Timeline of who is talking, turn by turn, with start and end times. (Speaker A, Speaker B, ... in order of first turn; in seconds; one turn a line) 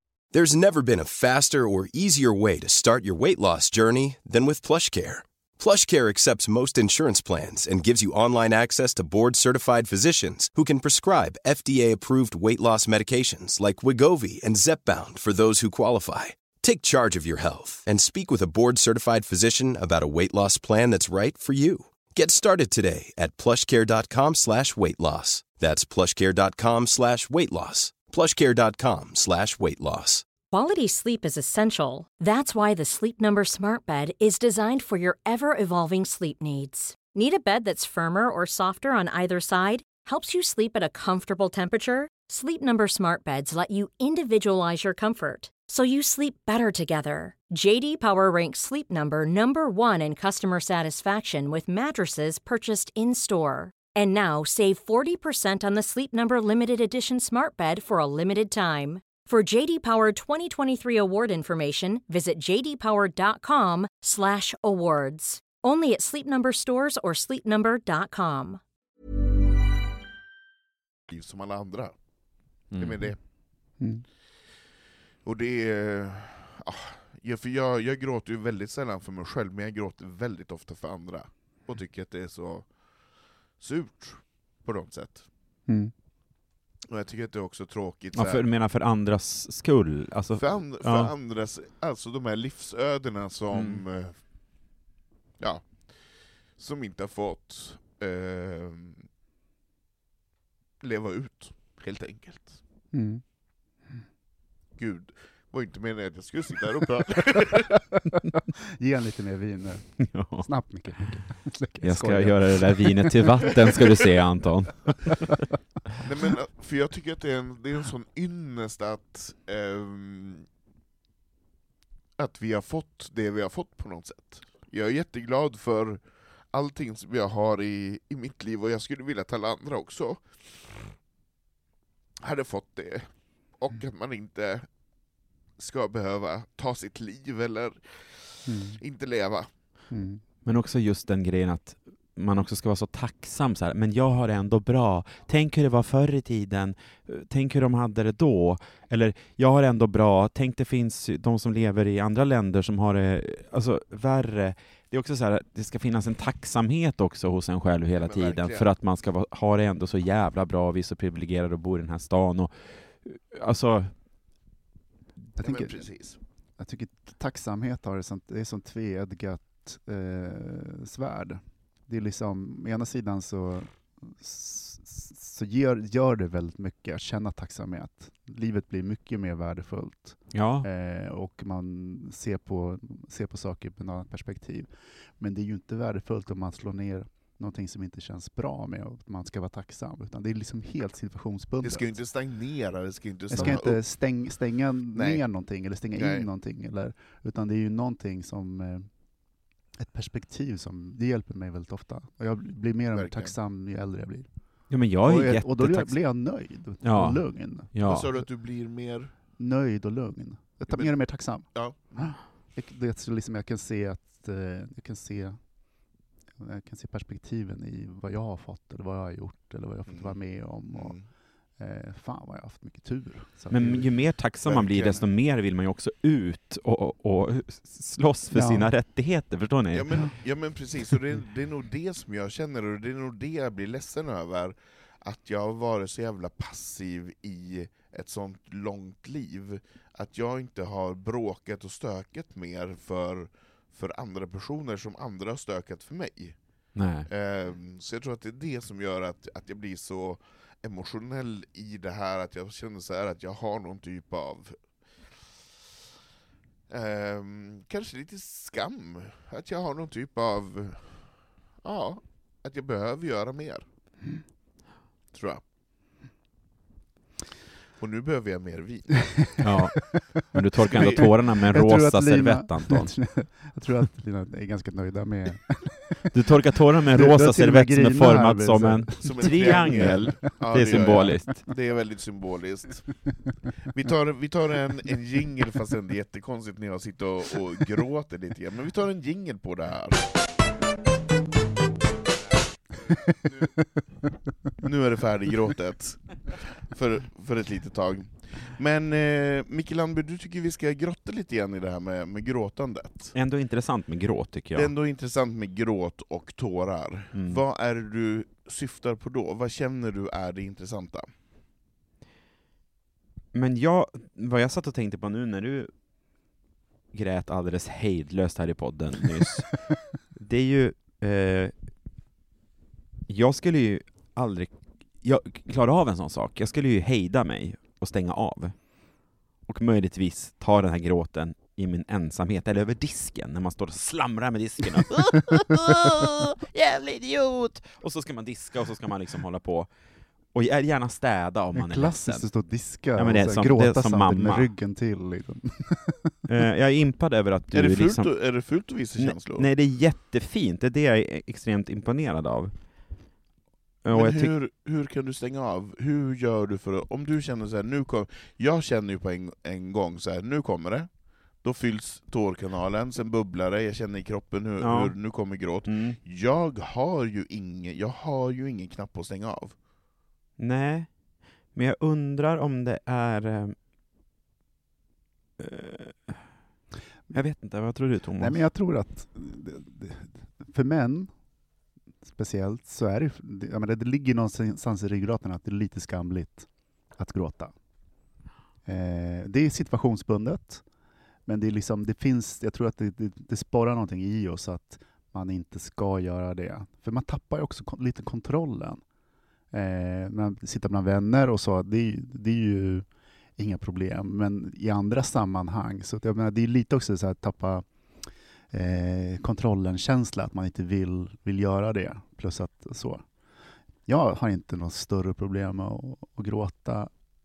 Speaker A: 0.3-30.3
Speaker B: 30.5-68.6
Speaker C: 71.1-72.0
Speaker C: 72.6-73.2
Speaker D: 72.7-73.2
Speaker E: 73.8-74.0
Speaker C: 75.2-85.3
Speaker E: 85.7-85.9
Speaker C: 86.9-88.4
Speaker D: 88.1-91.1
Speaker C: 90.3-94.2
Speaker D: 93.5-93.8
Speaker C: 95.4-99.1
Speaker C: 100.8-102.6
Speaker E: 102.9-103.2
Speaker C: 104.7-107.8
Speaker E: 108.8-113.1
Speaker D: 110.0-111.2
Speaker D: 111.8-115.3
Speaker C: 116.0-120.5
Speaker C: 122.2-131.0
Speaker C: 132.2-134.7
Speaker C: 135.6-139.5
Speaker E: 138.4-138.8
Speaker E: 139.9-140.2
Speaker D: 140.4-163.9
Speaker C: 158.0-158.7
Speaker C: 165.4-166.2
Speaker E: 165.4-192.0
Speaker D: 180.3-180.7
Speaker C: 191.6-194.2
Speaker E: 193.3-198.9
Speaker D: 193.3-193.6
Speaker C: 194.9-195.2
Speaker C: 195.9-196.3
Speaker E: 199.8-208.2
Speaker C: 202.9-203.3
Speaker D: 204.7-208.1
Speaker C: 207.8-209.1
Speaker E: 209.4-215.6
Speaker C: 210.7-212.2
Speaker E: 216.3-221.0
Speaker C: 219.9-221.1
Speaker E: 221.6-223.9
Speaker D: 223.5-230.1
Speaker C: 224.4-225.0
Speaker E: 228.3-228.7
Speaker C: 229.7-255.3
Speaker D: 246.7-247.1
Speaker C: 256.7-263.6
Speaker C: 265.1-265.4
Speaker C: 267.8-269.3
Speaker D: 269.4-273.1
Speaker C: 270.7-271.1
Speaker E: 271.0-276.0
Speaker D: 276.1-281.5
Speaker E: 276.9-280.1
Speaker C: 279.0-283.1
Speaker C: 283.7-290.1
Speaker C: 293.2-293.5
Speaker C: 294.6-303.1
Speaker D: 303.1-304.7
Speaker C: 304.5-311.1
Speaker D: 307.1-307.4
Speaker D: 313.3-315.7
Speaker D: 316.9-321.5
Speaker D: 323.1-339.7
Speaker D: 340.2-342.3
Speaker E: 341.5-346.2
Speaker D: 342.9-344.5
Speaker D: 346.3-352.5
Speaker C: 347.5-349.5
Speaker D: 353.8-354.3
Speaker C: 353.9-369.6
Speaker D: 364.6-366.0
Speaker D: 370.4-373.6
Speaker D: 375.4-376.3
Speaker D: 377.1-378.4
Speaker E: 378.2-381.1
Speaker E: 382.0-387.5
Speaker E: 388.6-390.6
Speaker E: 391.2-398.8
Speaker E: 399.5-407.7
Speaker E: 408.5-413.0
Speaker E: 413.9-416.9